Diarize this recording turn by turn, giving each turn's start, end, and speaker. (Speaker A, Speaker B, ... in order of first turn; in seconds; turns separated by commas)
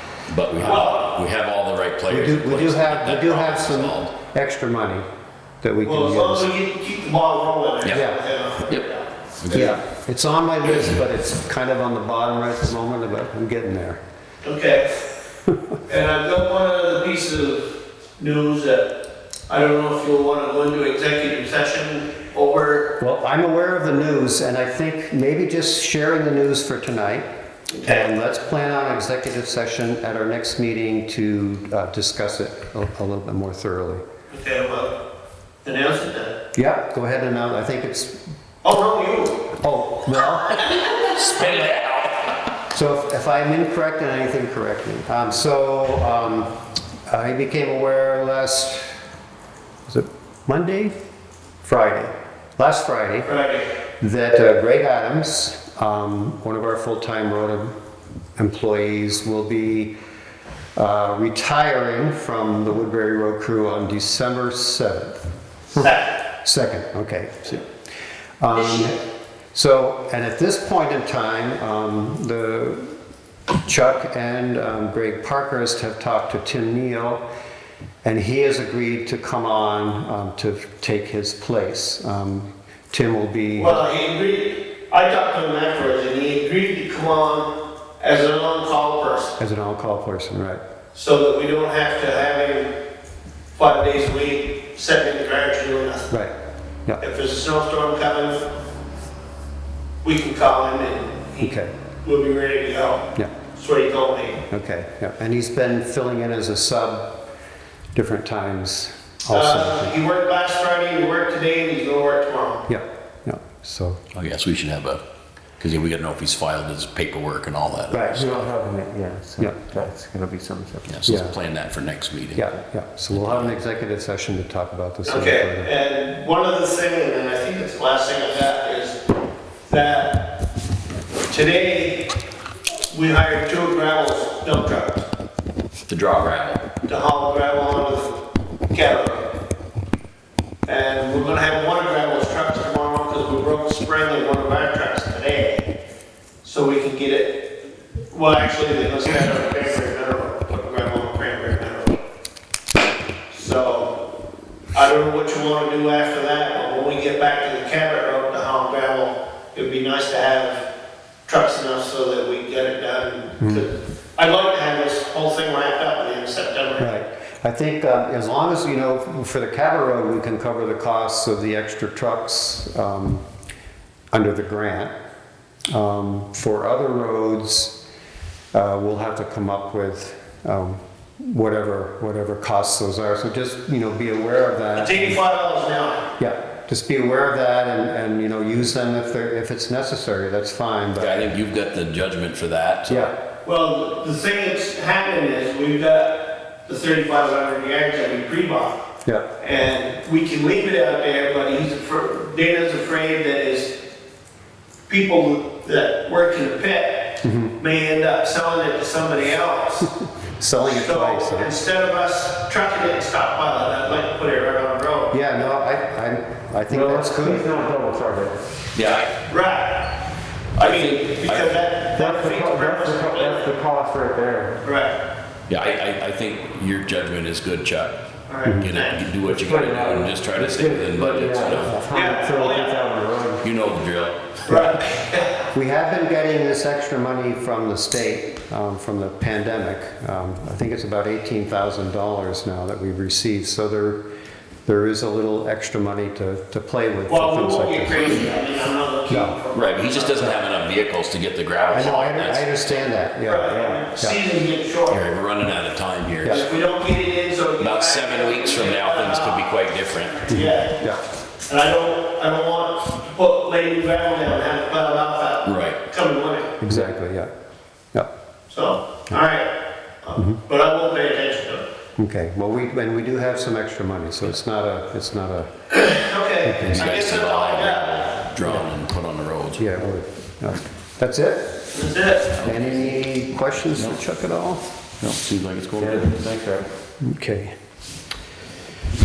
Speaker A: 0.3-4.1, Speaker B: 0.6-0.9, Speaker C: 0.7-1.0, Speaker B: 2.1-5.0, Speaker B: 5.6-6.5, Speaker C: 5.8-9.7, Speaker B: 7.9-8.2, Speaker A: 9.4-9.8, Speaker B: 9.5-14.0, Speaker C: 14.4-14.9, Speaker C: 15.9-18.9, Speaker C: 19.5-22.9, Speaker B: 23.0-27.2, Speaker C: 27.8-28.1, Speaker B: 27.8-34.0, Speaker C: 34.3-35.0, Speaker C: 35.6-36.3, Speaker B: 36.5-38.2, Speaker C: 38.6-39.5, Speaker B: 39.6-40.7, Speaker A: 40.6-42.2, Speaker B: 42.7-46.5, Speaker B: 47.1-48.9, Speaker B: 49.9-51.0, Speaker B: 51.6-53.3, Speaker C: 53.3-53.7, Speaker B: 54.0-57.7, Speaker B: 58.4-59.9, Speaker B: 60.8-65.2, Speaker C: 65.8-66.0, Speaker B: 66.4-67.6, Speaker B: 68.4-69.0, Speaker B: 69.5-72.9, Speaker B: 73.6-77.2, Speaker B: 78.0-83.8, Speaker C: 83.5-89.3, Speaker B: 89.4-90.6, Speaker C: 90.9-92.7, Speaker C: 93.5-96.1, Speaker C: 97.0-98.4, Speaker C: 100.0-104.4, Speaker B: 101.4-101.7, Speaker B: 104.5-107.2, Speaker B: 107.9-109.9, Speaker C: 109.3-112.7, Speaker B: 112.7-114.0, Speaker A: 114.1-115.0, Speaker A: 115.6-118.2, Speaker B: 117.9-118.3, Speaker D: 118.1-121.0, Speaker A: 120.9-122.4, Speaker B: 121.0-121.4, Speaker B: 122.3-125.7, Speaker A: 123.1-123.5, Speaker C: 125.0-129.0, Speaker C: 129.7-130.3, Speaker C: 131.3-132.1, Speaker C: 132.9-135.0, Speaker A: 135.9-136.7, Speaker C: 136.9-138.2, Speaker C: 138.7-139.3, Speaker C: 140.7-145.7, Speaker C: 146.4-147.4, Speaker C: 148.1-152.0, Speaker C: 153.3-153.9, Speaker C: 154.8-160.7, Speaker C: 161.3-166.9, Speaker B: 163.4-163.7, Speaker B: 166.8-173.2, Speaker B: 174.1-174.9, Speaker B: 175.7-177.8, Speaker B: 178.5-185.2, Speaker C: 184.8-186.1, Speaker B: 186.2-191.3, Speaker A: 191.0-193.1, Speaker B: 192.9-193.1, Speaker C: 193.4-198.8, Speaker C: 199.4-203.7, Speaker C: 204.9-209.9, Speaker B: 207.2-207.6, Speaker B: 210.0-211.5, Speaker C: 210.6-215.1, Speaker B: 215.1-217.5, Speaker D: 216.7-218.4, Speaker A: 218.7-219.2, Speaker C: 219.3-220.0, Speaker C: 220.6-223.5, Speaker A: 220.6-221.6, Speaker D: 222.0-224.6, Speaker C: 224.6-225.0, Speaker A: 225.5-228.0, Speaker C: 228.3-229.0, Speaker A: 228.6-231.8, Speaker D: 229.3-233.5, Speaker C: 231.9-232.8, Speaker A: 233.4-234.5, Speaker C: 234.5-235.4, Speaker B: 235.5-244.0, Speaker B: 244.7-248.3, Speaker C: 247.1-250.5, Speaker B: 249.1-249.4, Speaker A: 249.5-252.8, Speaker B: 251.7-254.2, Speaker C: 253.3-255.1, Speaker A: 254.9-256.4, Speaker C: 256.2-259.6, Speaker A: 257.6-260.3, Speaker C: 260.2-260.8, Speaker B: 260.3-261.0, Speaker C: 261.5-266.5, Speaker A: 265.4-265.8, Speaker B: 266.6-267.3, Speaker C: 268.5-269.5, Speaker C: 270.0-271.6, Speaker B: 272.0-275.5, Speaker C: 275.7-278.2, Speaker B: 276.4-276.9, Speaker A: 276.7-279.6, Speaker B: 278.4-278.7, Speaker B: 279.6-281.5, Speaker C: 281.7-282.3, Speaker A: 282.4-282.9, Speaker B: 282.4-284.6, Speaker A: 283.7-284.0, Speaker A: 285.0-286.2, Speaker D: 285.8-286.7, Speaker B: 287.0-287.6